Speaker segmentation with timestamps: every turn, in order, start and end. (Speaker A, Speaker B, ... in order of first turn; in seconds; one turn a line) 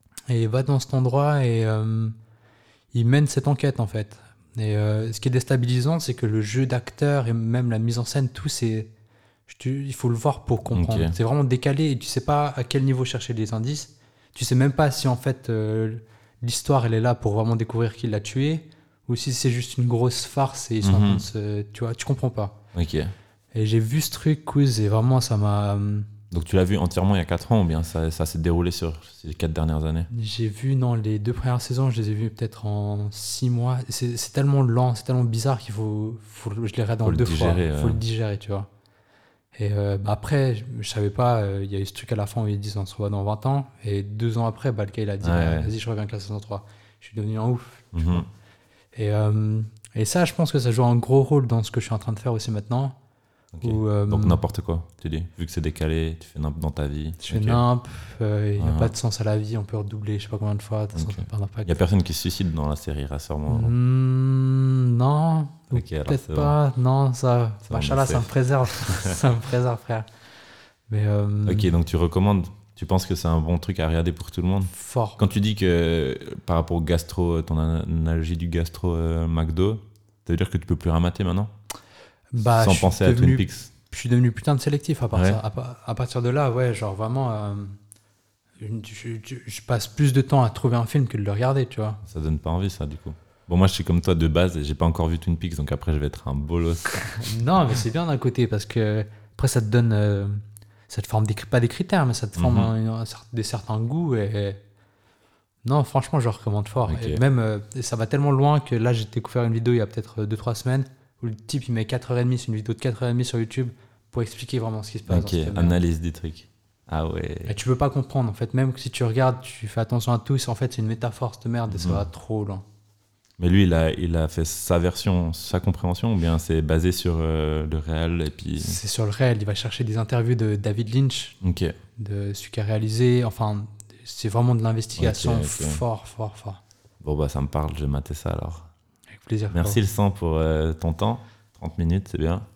Speaker A: 0.3-2.1
Speaker A: 2.9-8.9
Speaker A: 9.5-22.6
Speaker B: 10.7-11.1
Speaker B: 20.8-21.2
Speaker B: 22.7-23.1
Speaker A: 23.5-26.1
Speaker B: 26.3-30.1
Speaker A: 30.1-38.7
Speaker B: 37.0-38.0
Speaker A: 39.5-48.3
Speaker B: 45.2-45.7
Speaker B: 47.9-48.2
Speaker A: 48.9-52.9
Speaker B: 53.5-57.6
Speaker A: 53.6-54.4
Speaker A: 57.2-61.8
Speaker B: 58.6-58.9
Speaker B: 60.9-63.7
Speaker A: 63.5-70.1
Speaker B: 65.7-66.5
Speaker B: 67.7-69.1
Speaker A: 70.9-71.7
Speaker B: 71.5-81.5
Speaker A: 74.7-75.2
Speaker A: 82.3-87.8
Speaker B: 82.5-83.7
Speaker B: 85.1-85.4
Speaker A: 88.6-92.0
Speaker B: 92.0-97.3
Speaker A: 97.0-104.6
Speaker B: 102.3-102.7
Speaker A: 105.6-115.8
Speaker B: 106.9-107.2
Speaker B: 115.1-117.6
Speaker A: 117.5-122.6
Speaker B: 121.7-122.0
Speaker B: 123.4-128.8
Speaker A: 128.6-131.4
Speaker B: 131.4-131.7
Speaker A: 132.0-136.6
Speaker B: 135.0-135.8
Speaker B: 137.0-138.7
Speaker A: 139.2-139.8
Speaker B: 139.5-142.4